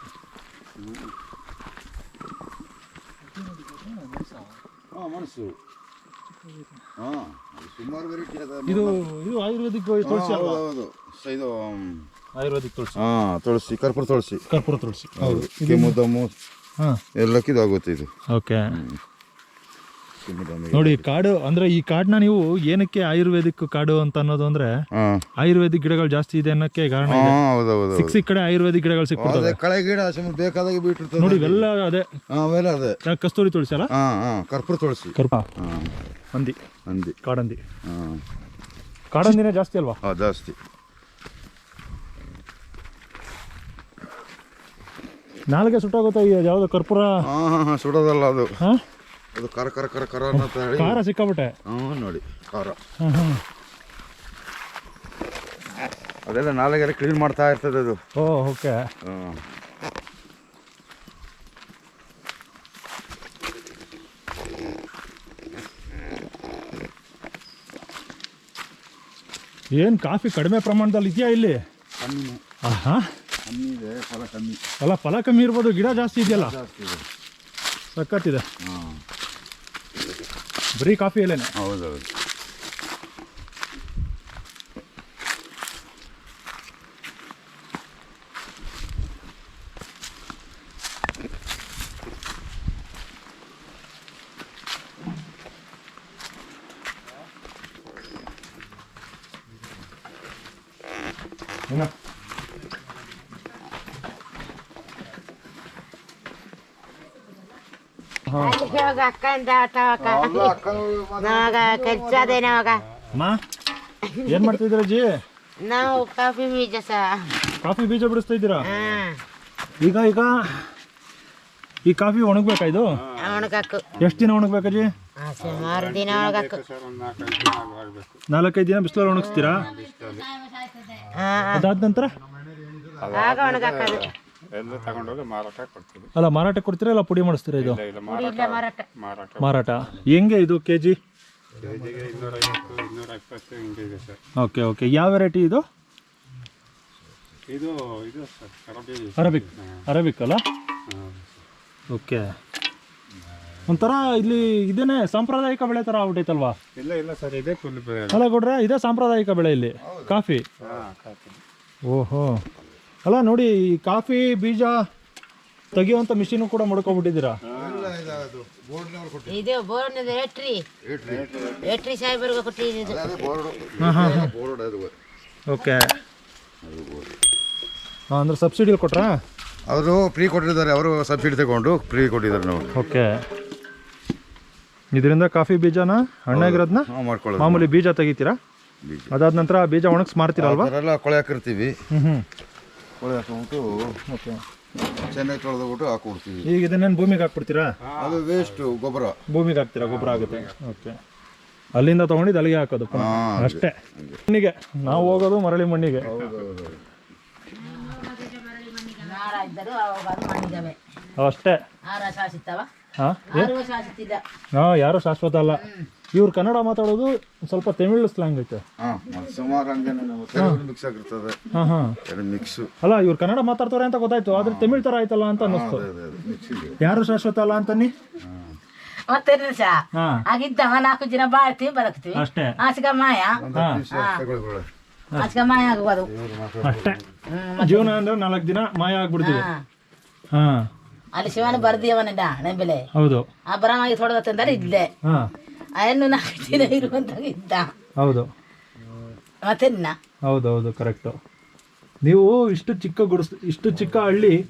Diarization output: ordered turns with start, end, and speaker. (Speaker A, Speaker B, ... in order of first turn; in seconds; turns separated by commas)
Speaker A: 0.8-1.1, Speaker B: 3.4-4.5, Speaker C: 4.9-5.5, Speaker C: 7.0-9.0, Speaker B: 8.7-10.6, Speaker C: 10.0-12.1, Speaker B: 12.3-12.9, Speaker C: 12.9-14.4, Speaker B: 14.5-15.9, Speaker C: 15.2-16.3, Speaker C: 17.1-18.1, Speaker B: 18.3-18.7, Speaker C: 18.7-19.0, Speaker C: 20.2-21.1, Speaker B: 20.7-24.7, Speaker C: 24.9-25.2, Speaker B: 25.4-27.4, Speaker C: 27.1-28.2, Speaker B: 27.9-29.6, Speaker C: 29.2-31.6, Speaker B: 31.2-32.1, Speaker C: 32.3-33.0, Speaker B: 33.0-33.9, Speaker C: 33.9-35.9, Speaker B: 35.2-35.5, Speaker C: 36.9-37.2, Speaker B: 37.2-37.6, Speaker C: 37.8-38.2, Speaker B: 39.1-40.0, Speaker C: 40.0-40.6, Speaker B: 45.5-47.2, Speaker C: 47.2-48.5, Speaker C: 49.3-51.0, Speaker B: 50.3-51.5, Speaker C: 51.6-52.8, Speaker B: 53.0-53.4, Speaker C: 56.2-58.0, Speaker B: 58.2-58.8, Speaker C: 59.0-59.4, Speaker B: 69.8-71.6, Speaker C: 72.0-72.4, Speaker B: 72.7-73.0, Speaker C: 73.5-74.6, Speaker B: 74.8-76.5, Speaker C: 76.2-77.0, Speaker B: 77.9-78.4, Speaker C: 78.6-79.0, Speaker B: 80.8-81.5, Speaker C: 81.5-82.1, Speaker B: 108.3-108.6, Speaker D: 108.3-110.6, Speaker C: 110.0-112.4, Speaker D: 111.2-112.8, Speaker B: 113.1-113.4, Speaker D: 114.1-114.6, Speaker B: 114.2-115.1, Speaker D: 115.6-117.3, Speaker B: 117.6-118.7, Speaker D: 118.6-119.2, Speaker B: 119.8-120.5, Speaker B: 121.8-123.0, Speaker A: 122.9-124.3, Speaker D: 123.2-123.8, Speaker B: 124.0-124.9, Speaker D: 125.2-126.6, Speaker A: 125.4-128.2, Speaker B: 128.3-129.7, Speaker D: 129.2-129.5, Speaker A: 129.4-130.3, Speaker E: 129.6-131.0, Speaker D: 131.1-131.7, Speaker B: 131.5-132.1, Speaker A: 133.0-136.1, Speaker D: 133.1-134.1, Speaker B: 136.2-137.8, Speaker A: 137.6-139.5, Speaker D: 138.0-138.8, Speaker B: 139.4-141.0, Speaker A: 141.6-144.2, Speaker B: 144.4-145.6, Speaker A: 147.5-149.8, Speaker B: 149.2-150.4, Speaker A: 150.9-151.4, Speaker B: 151.9-152.3, Speaker B: 153.7-156.6, Speaker A: 156.8-158.2, Speaker B: 158.1-160.4, Speaker C: 159.8-160.2, Speaker A: 160.6-161.4, Speaker B: 161.9-162.4, Speaker B: 163.1-164.8, Speaker B: 165.7-167.4, Speaker A: 167.5-167.9, Speaker C: 167.5-169.4, Speaker E: 169.3-170.6, Speaker C: 170.8-171.5, Speaker A: 171.1-171.5, Speaker D: 171.7-173.0, Speaker E: 171.8-172.5, Speaker C: 172.8-174.9, Speaker B: 173.8-174.3, Speaker B: 175.5-175.8, Speaker C: 176.6-177.1, Speaker B: 178.1-179.2, Speaker C: 179.7-182.7, Speaker B: 182.7-183.2, Speaker B: 184.9-186.9, Speaker C: 186.3-187.7, Speaker B: 187.4-188.4, Speaker C: 188.8-189.1, Speaker B: 189.1-190.7, Speaker C: 190.3-191.8, Speaker B: 191.9-192.2, Speaker C: 193.0-193.9, Speaker B: 194.1-194.4, Speaker C: 195.1-196.5, Speaker B: 196.4-197.7, Speaker A: 197.8-198.6, Speaker C: 198.0-199.2, Speaker B: 199.3-200.9, Speaker A: 199.8-200.6, Speaker B: 201.8-203.8, Speaker C: 202.9-204.2, Speaker B: 204.3-206.1, Speaker C: 204.9-205.2, Speaker C: 206.0-206.8, Speaker E: 207.6-210.8, Speaker B: 211.2-211.6, Speaker E: 211.8-212.7, Speaker B: 213.0-213.5, Speaker E: 213.3-214.2, Speaker B: 214.6-215.6, Speaker E: 215.6-215.9, Speaker B: 216.1-218.6, Speaker C: 218.8-221.4, Speaker B: 221.5-222.0, Speaker C: 222.0-222.7, Speaker B: 222.8-225.8, Speaker C: 224.3-224.8, Speaker C: 225.4-226.8, Speaker B: 226.8-227.9, Speaker C: 228.2-228.6, Speaker E: 229.1-234.2, Speaker B: 229.9-230.2, Speaker B: 232.2-232.6, Speaker C: 233.4-234.7, Speaker B: 233.5-233.8, Speaker E: 235.2-236.1, Speaker C: 236.1-237.1, Speaker B: 236.6-237.0, Speaker E: 237.3-238.0, Speaker B: 237.6-239.4, Speaker E: 239.2-239.6, Speaker B: 240.3-240.7, Speaker E: 241.1-242.8, Speaker B: 242.9-243.3, Speaker E: 243.4-244.9, Speaker E: 245.8-247.7, Speaker B: 248.0-248.3, Speaker E: 249.4-249.9, Speaker B: 250.3-251.2, Speaker B: 252.0-254.4